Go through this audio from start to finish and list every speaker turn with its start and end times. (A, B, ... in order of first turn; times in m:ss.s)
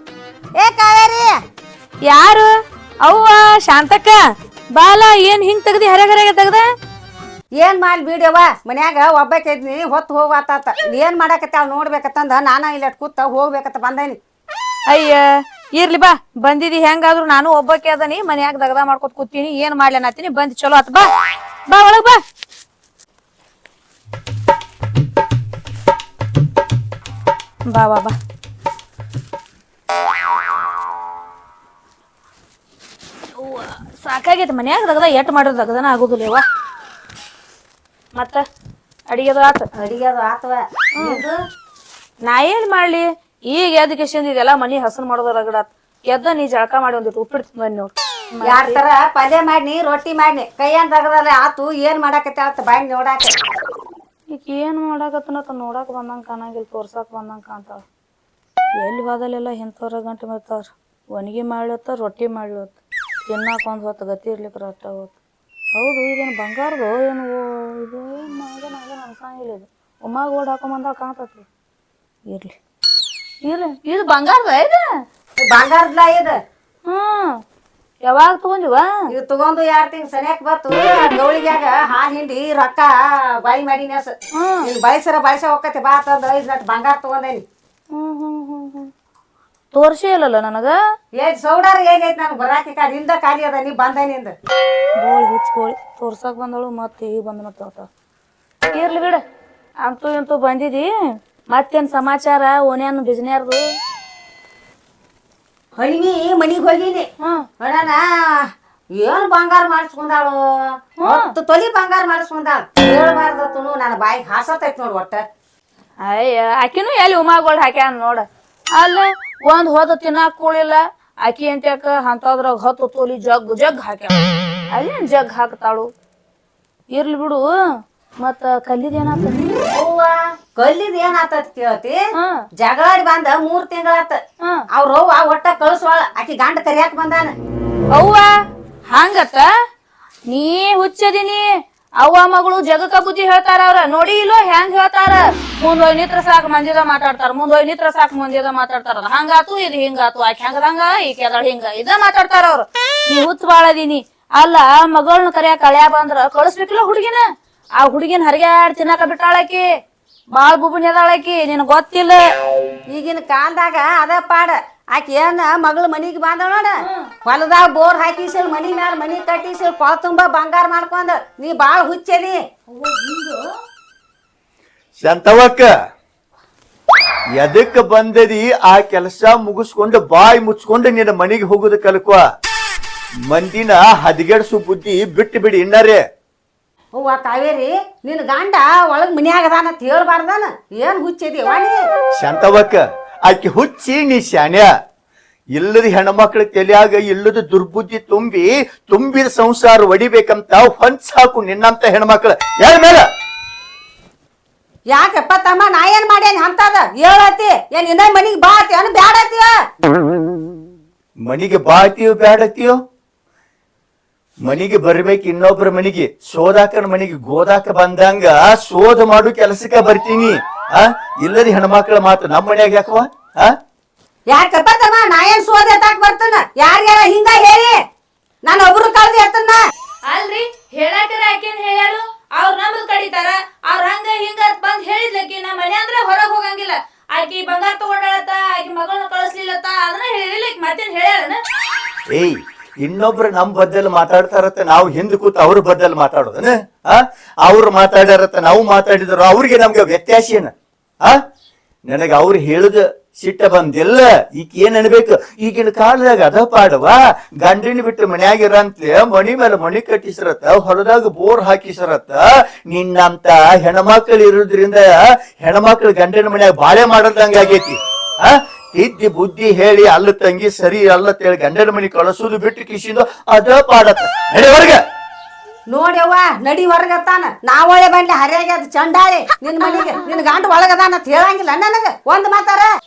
0:00.6-0:01.3 A
0:02.0-0:02.5 B
0:03.0-0:06.7 B
0:07.6-0:14.2 A
0:14.9-0:21.1 B
0:21.7-0:22.2 B
0:27.7-0:28.1 B
0:33.4-0:36.4 B
0:38.1-0:38.4 B
0:39.1-0:39.6 B
0:39.8-0:41.4 A
0:42.2-0:48.8 B
0:48.4-0:53.3 A
0:54.3-0:57.8 B
0:58.8-1:05.1 B
1:05.7-1:11.4 B
1:12.3-1:12.5 B
1:13.4-1:14.8 B
1:15.4-1:16.4 A
1:16.8-1:17.3 B
1:18.0-1:18.9 B
1:19.1-1:27.4 A
1:24.4-1:24.6 B
1:27.9-1:28.9 B
1:29.7-1:30.7 B
1:31.2-1:34.3 A
1:35.0-1:37.9 B
1:38.7-1:39.2 B
1:39.8-1:40.9 B
1:41.5-1:43.6 B
1:45.8-1:47.1 A
1:47.6-1:48.5 A
1:49.0-1:55.2 A
1:51.0-1:51.3 B
1:56.0-1:58.2 B
1:58.8-2:05.9 B
2:06.9-2:07.5 B
2:08.2-2:09.6 B
2:09.7-2:12.0 A
2:12.6-2:14.2 A
2:14.7-2:17.3 A
2:17.9-2:18.3 B
2:18.9-2:19.4 B
2:20.3-2:37.2 B
2:37.8-2:39.6 B
2:40.3-2:42.2 B
2:42.9-2:52.4 A
2:52.7-2:53.4 B
2:55.0-2:55.7 C
2:57.4-3:02.2 C
3:03.3-3:06.0 C
3:06.9-3:11.8 A
3:12.2-3:14.7 C
3:15.6-3:23.0 C
3:24.9-3:29.5 A
3:31.2-3:32.8 C
3:34.4-3:43.5 C
3:44.3-3:47.8 A
3:48.4-3:49.6 A
3:50.1-4:01.4 B
4:02.1-4:10.5 C
4:11.9-4:34.8 C
4:35.7-4:42.7 A